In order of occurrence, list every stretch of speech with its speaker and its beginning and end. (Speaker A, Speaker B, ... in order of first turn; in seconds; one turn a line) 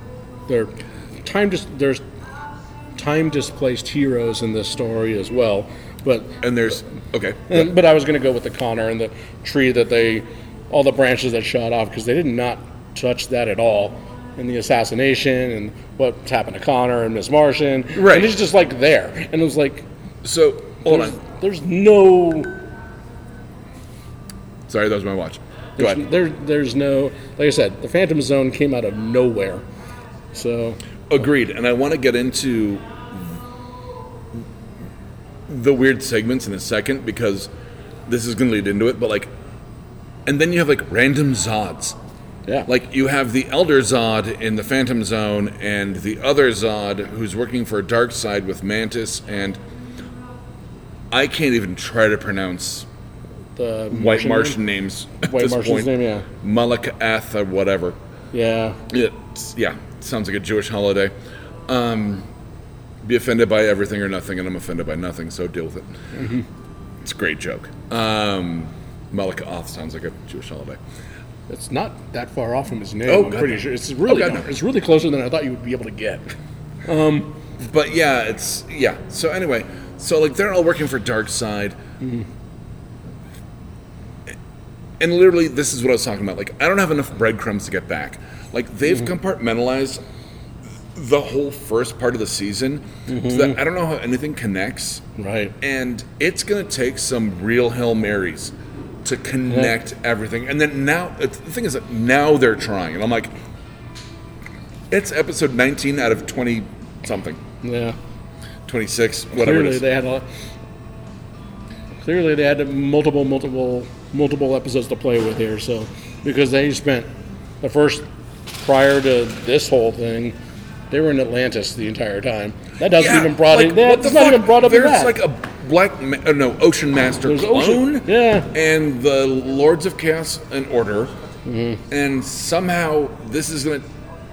Speaker A: 0.5-2.0
Speaker A: 3.0-6.4
Speaker B: 6.4-7.7
Speaker A: 7.5-19.9
Speaker B: 17.9-18.4
Speaker B: 20.2-21.2
Speaker A: 20.8-22.6
Speaker B: 24.7-26.0
Speaker A: 25.8-29.6
Speaker A: 30.3-30.8
Speaker B: 31.1-33.3
Speaker B: 35.5-37.5
Speaker B: 38.1-39.3
Speaker B: 40.3-42.0
Speaker B: 42.7-49.6
Speaker B: 51.1-52.9
Speaker A: 53.6-54.6
Speaker B: 53.9-58.0
Speaker A: 55.2-56.3
Speaker A: 58.3-58.8
Speaker B: 58.9-61.1
Speaker B: 61.7-62.3
Speaker B: 63.0-65.9
Speaker A: 66.2-66.5
Speaker B: 67.0-70.8
Speaker A: 71.5-77.3
Speaker B: 73.1-74.5
Speaker B: 77.6-81.8
Speaker A: 82.0-82.3
Speaker B: 85.0-90.0
Speaker B: 91.0-95.0
Speaker A: 93.1-93.6
Speaker A: 95.2-95.5
Speaker B: 95.6-103.3
Speaker A: 99.5-99.8
Speaker B: 104.9-107.4
Speaker A: 107.6-108.0
Speaker B: 108.7-109.9
Speaker A: 109.3-110.3
Speaker A: 112.0-117.1
Speaker A: 117.6-118.1
Speaker A: 118.6-120.4
Speaker A: 120.9-125.2
Speaker B: 122.8-131.1
Speaker A: 127.2-128.5
Speaker A: 131.5-131.8
Speaker B: 131.9-133.9